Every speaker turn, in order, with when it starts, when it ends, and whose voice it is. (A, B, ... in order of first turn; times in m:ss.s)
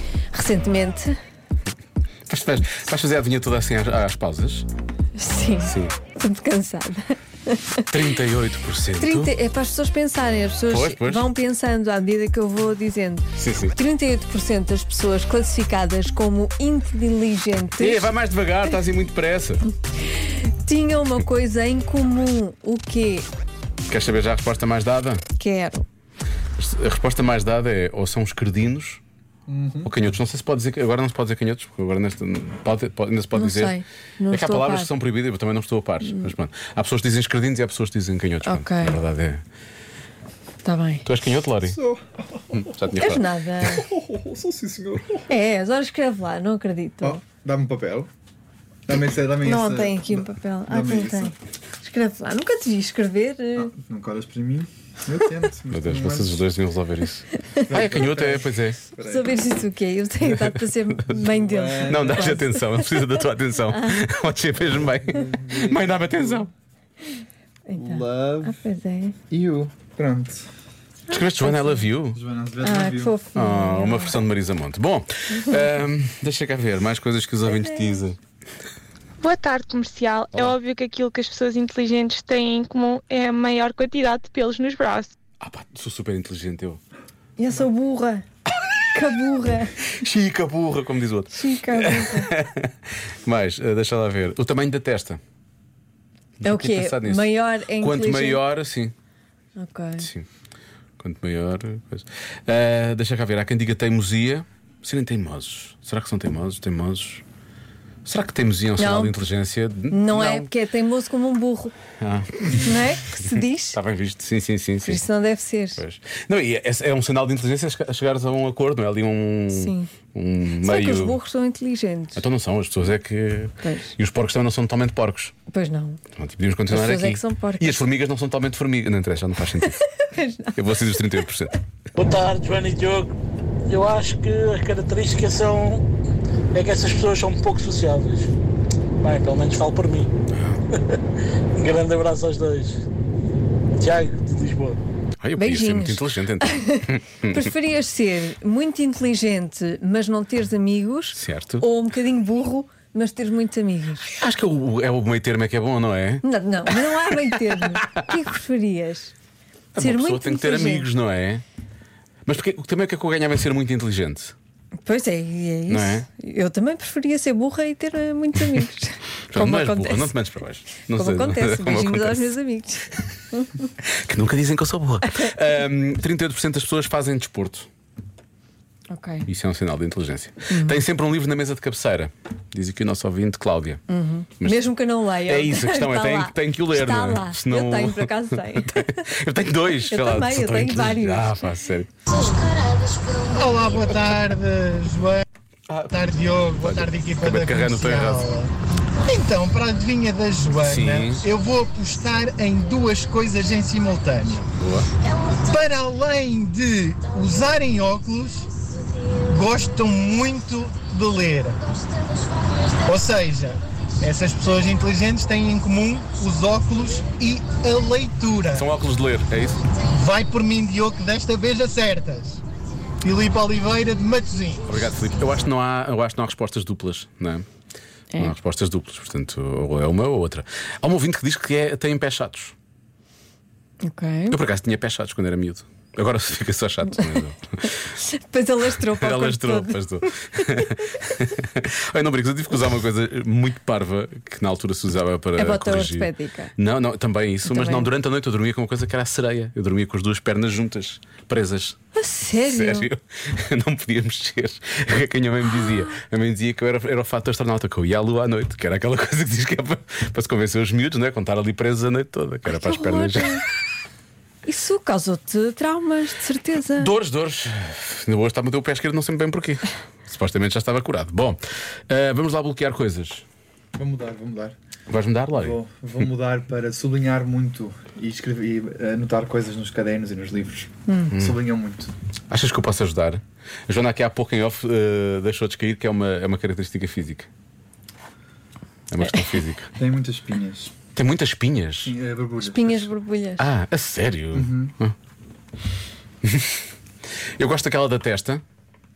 0:00.3-0:01.2 A
0:02.3-0:04.7 B
0:05.2-0:07.9 A
0:05.6-0:06.0 B
0:07.9-0:09.3 B
0:09.0-0:18.1 A
0:10.7-0:11.3 B
0:13.4-0:13.7 B
0:17.8-0:19.6 B
0:20.2-0:23.3 A
0:23.9-0:25.2 B
0:25.4-0:25.8 A
0:26.6-0:29.0 B
0:29.5-0:29.9 C
0:29.8-0:39.4 B
0:33.3-0:34.9 A
0:38.4-0:39.0 A
0:40.6-0:41.0 A
0:41.0-0:41.8 B
0:41.6-0:42.7 C
0:42.5-0:43.6 B
0:43.0-0:43.8 A
0:43.7-0:45.3 C
0:45.3-0:47.2 A
0:47.0-0:48.1 C
0:48.9-0:51.3 C
0:49.4-0:53.7 A
0:53.6-0:56.4 C
0:55.7-0:58.8 B
0:57.4-0:57.7 A
0:57.6-0:59.4 C
0:59.0-1:03.0 A
1:01.1-1:02.4 C
1:01.8-1:06.5 B
1:03.7-1:04.0 A
1:04.6-1:06.5 C
1:07.7-1:09.1 A
1:07.7-1:08.6 C
1:09.3-1:10.5 C
1:11.1-1:12.2 B
1:11.1-1:11.9 A
1:12.1-1:13.2 C
1:12.6-1:14.2 A
1:13.3-1:18.2 B
1:17.5-1:18.0 A
1:19.2-1:25.1 D
1:25.4-1:26.8 B
1:27.4-1:28.2 A
1:28.9-1:29.7 A
1:29.8-1:32.7 B
1:31.3-1:32.3 A
1:33.2-1:35.2 B
1:36.4-1:38.9 B
1:36.4-1:38.4 A
1:39.6-1:40.1 A
1:40.0-1:40.2 B
1:41.0-1:47.2 B
1:48.0-1:50.5 B
1:48.8-1:49.2 A
1:49.9-1:51.7 A
1:52.0-1:55.0 B
1:52.5-1:53.8 A
1:54.8-1:55.8 A
1:55.8-2:01.2 B
1:59.5-1:59.9 A
2:00.6-2:02.2 A
2:02.2-2:05.3 B
2:03.6-2:03.9 A
2:05.5-2:06.0 A
2:06.2-2:09.8 B
2:06.7-2:07.8 A
2:09.6-2:10.6 A
2:10.5-2:11.5 B
2:12.0-2:13.1 E
2:13.6-2:15.8 E
2:16.5-2:18.2 E
2:19.0-2:20.1 E
2:20.3-2:20.6 B
2:21.5-2:22.8 E
2:23.8-2:24.8 E
2:25.2-2:27.5 B
2:25.4-2:34.2 A
2:31.1-2:31.6 B
2:34.2-2:37.9 B
2:36.2-2:39.1 A
2:39.7-2:41.4 B
2:39.8-2:40.9 A
2:42.2-2:44.3 B
2:44.8-2:50.2 A
2:45.7-2:46.0 B
2:49.3-2:52.3 B
2:50.8-2:53.6 A
2:53.8-2:57.7 B
2:58.9-2:59.3 A
2:59.3-3:03.8 B
3:00.5-3:00.8 A
3:03.9-3:09.1 A
3:04.4-3:04.7 B
3:05.2-3:11.9 B
3:09.7-3:11.5 A
3:13.1-3:15.2 F
3:15.7-3:18.3 B
3:15.9-3:24.5 F
3:20.6-3:21.3 B
3:24.5-3:24.9 B
3:25.3-3:28.5 F
3:29.2-3:31.6 F
3:32.8-3:38.7 F
3:38.5-3:39.6 B
3:39.8-3:42.4 F
3:43.0-3:44.7 F
3:44.7-3:47.5 B
3:48.2-3:52.5 B
3:53.8-3:54.4 A
3:54.3-3:57.7 B
3:57.8-3:59.8 A
3:58.8-4:11.8 B
4:05.4-4:06.5 A
4:07.4-4:07.9 A
4:11.9-4:12.9 A
4:12.4-4:23.4 B
4:22.5-4:23.4 A
4:24.4-4:26.9 A
4:26.7-4:33.2 B
4:33.7-4:34.6 C
4:34.9-4:35.6 B
4:35.3-4:41.9 C
4:40.9-4:41.1 A
4:42.3-4:47.3 B
4:48.9-4:49.7 B
4:49.8-4:50.7 C
4:50.9-4:51.9 B
4:51.8-4:52.9 C
4:52.4-4:53.5 A
4:53.4-4:54.9 B
4:54.3-4:54.7 C
4:56.2-4:56.6 B
4:57.4-4:58.4 B